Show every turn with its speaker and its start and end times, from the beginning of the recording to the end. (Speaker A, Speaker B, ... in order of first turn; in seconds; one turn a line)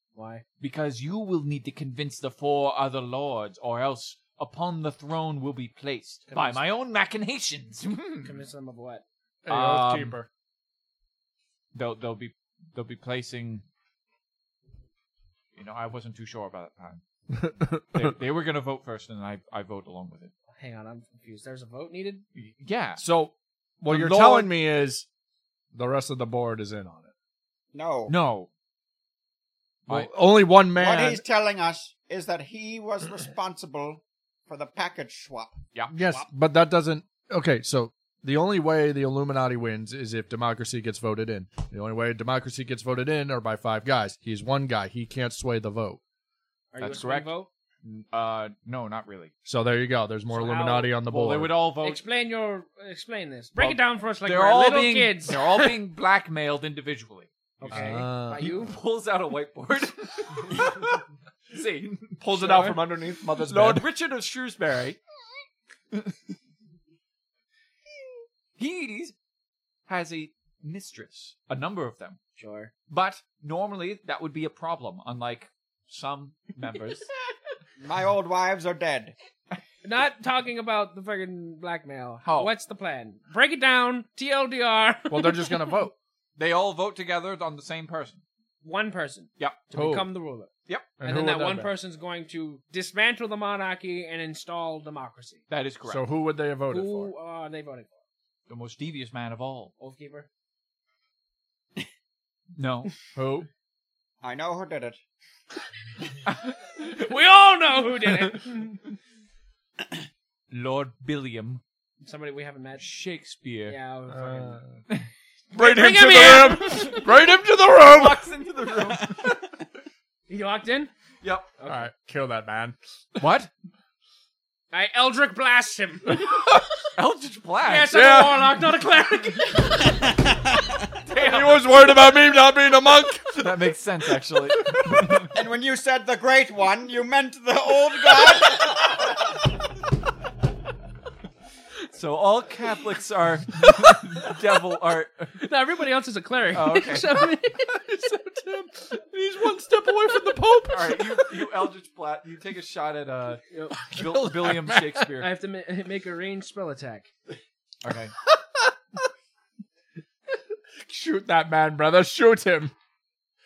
Speaker A: 0.1-0.4
Speaker B: 0.6-8.4
Speaker C: 6.3-6.6
Speaker A: 8.2-9.1
Speaker C: 9.4-10.3
Speaker B: 9.5-10.2
Speaker B: 11.7-13.6
Speaker B: 15.6-17.0
Speaker C: 17.3-18.1
Speaker B: 17.9-20.3
Speaker A: 20.6-22.2
Speaker B: 22.4-23.0
Speaker C: 23.0-25.1
Speaker B: 23.9-24.5
Speaker C: 25.7-27.1
Speaker D: 27.7-28.1
Speaker B: 28.1-28.5
Speaker B: 29.9-30.1
Speaker C: 29.9-31.2
Speaker D: 30.8-35.6
Speaker C: 35.9-46.0
Speaker A: 46.7-47.5
Speaker B: 46.8-49.3
Speaker C: 49.5-51.6
Speaker A: 50.3-51.0
Speaker B: 51.1-52.0
Speaker A: 51.8-55.8
Speaker B: 53.6-61.0
Speaker A: 57.6-58.8
Speaker C: 57.7-58.5
Speaker B: 61.5-62.4
Speaker C: 62.2-63.9
Speaker A: 62.4-62.8
Speaker B: 63.4-65.0
Speaker B: 68.6-69.1
Speaker B: 69.9-72.2
Speaker A: 72.4-72.7
Speaker B: 72.9-77.1
Speaker D: 77.8-79.1
Speaker A: 79.8-85.8
Speaker B: 82.2-82.5
Speaker C: 85.1-85.9
Speaker B: 86.4-88.2
Speaker A: 88.6-90.5
Speaker C: 89.7-90.1
Speaker C: 91.0-91.7
Speaker A: 91.0-95.4
Speaker B: 95.5-96.1
Speaker C: 95.9-97.1
Speaker A: 96.7-98.0
Speaker B: 98.5-99.7
Speaker A: 99.8-100.3
Speaker B: 102.6-102.9
Speaker C: 103.2-103.5
Speaker D: 104.2-105.0
Speaker A: 106.7-108.9
Speaker B: 110.5-111.6
Speaker A: 112.0-112.9
Speaker B: 112.8-113.8
Speaker A: 113.7-114.6
Speaker C: 114.1-114.8
Speaker C: 115.5-118.3
Speaker A: 115.5-117.1
Speaker B: 117.8-119.4
Speaker D: 119.0-119.4
Speaker A: 120.3-120.9
Speaker B: 121.2-121.5
Speaker A: 121.6-121.9
Speaker C: 121.7-123.2
Speaker B: 123.2-123.5
Speaker A: 124.7-126.5
Speaker C: 126.1-126.6
Speaker B: 127.0-128.0
Speaker A: 127.6-130.4
Speaker C: 127.9-128.7
Speaker D: 130.0-130.8
Speaker B: 131.1-131.6
Speaker C: 131.2-133.7
Speaker B: 133.4-135.3
Speaker C: 134.6-135.2
Speaker D: 135.3-139.0
Speaker B: 141.9-145.4
Speaker A: 145.4-147.8
Speaker B: 146.5-147.3
Speaker C: 147.7-151.5
Speaker B: 150.7-155.3
Speaker A: 153.5-153.8
Speaker C: 153.8-155.1
Speaker A: 155.2-157.1
Speaker B: 157.8-158.2
Speaker C: 158.3-158.7
Speaker C: 160.8-162.7